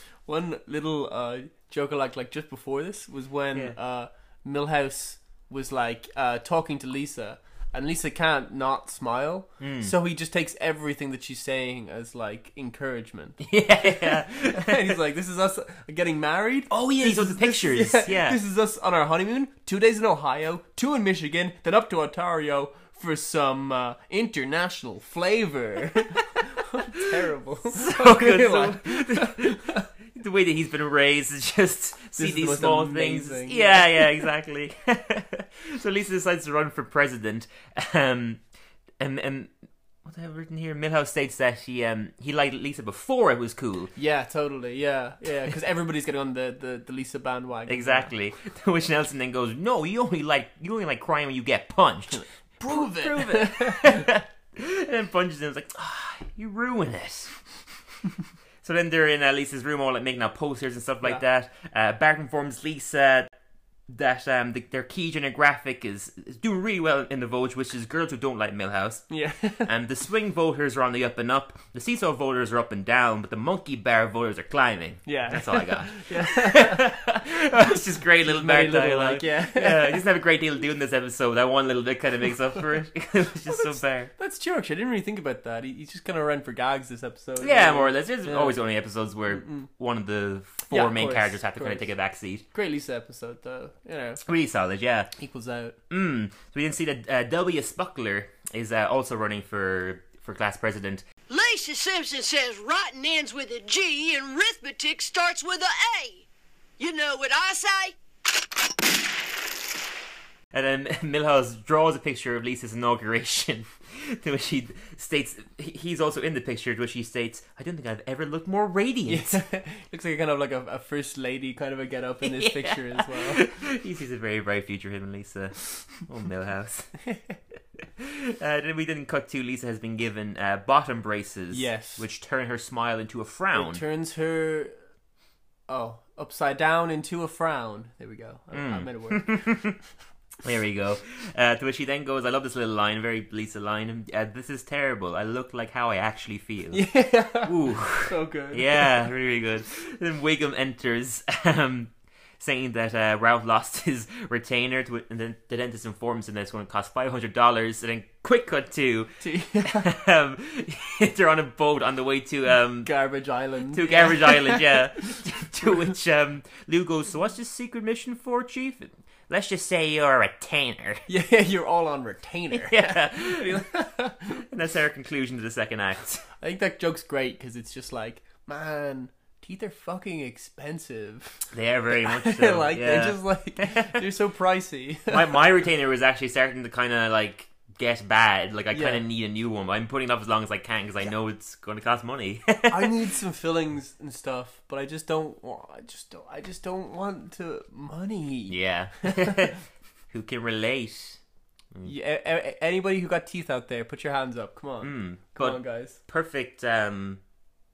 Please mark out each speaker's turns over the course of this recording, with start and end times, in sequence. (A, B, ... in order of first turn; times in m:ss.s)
0:00.2-0:29.8 A
0:09.6-0:09.9 B
0:13.4-0:14.9 B
0:16.7-0:18.4 B
0:27.7-0:38.4 B
0:32.2-0:34.2 A
0:39.0-0:39.5 B
0:40.0-0:43.9 B
0:44.0-0:48.1 A
0:47.7-0:57.4 B
0:52.1-0:54.1 A
0:58.6-1:03.3 B
1:03.9-1:09.0 B
1:09.1-1:09.7 A
1:09.6-1:24.1 B
1:15.0-1:16.9 A
1:18.2-1:20.0 A
1:23.5-1:28.6 A
1:27.4-1:32.4 B
1:29.3-1:29.7 A
1:30.7-1:31.9 A
1:32.5-1:34.2 A
1:34.2-1:35.1 B
1:35.2-1:35.8 A
1:35.9-1:41.0 B
1:41.3-1:46.2 C
1:46.8-1:48.0 C
1:50.5-1:59.4 B
1:59.1-2:03.4 A
2:02.2-2:06.9 B
2:07.1-2:07.3 A
2:08.0-2:13.8 B
2:11.5-2:12.0 A
2:13.5-2:14.7 A
2:15.7-2:19.4 A
2:18.5-2:19.8 B
2:20.4-2:26.9 B
2:26.7-2:29.0 A
2:27.4-2:42.9 B
2:39.2-2:39.9 A
2:42.8-2:44.8 A
2:43.7-2:51.0 B
2:51.1-2:54.4 A
2:52.5-2:53.6 B
2:54.4-2:56.2 B
2:56.4-3:05.4 A
3:01.5-3:04.0 B
3:05.1-3:13.0 B
3:08.7-3:09.0 A
3:12.7-3:19.5 A
3:18.5-3:19.6 B
3:20.1-3:21.2 B
3:21.8-3:26.0 A
3:24.8-3:27.2 B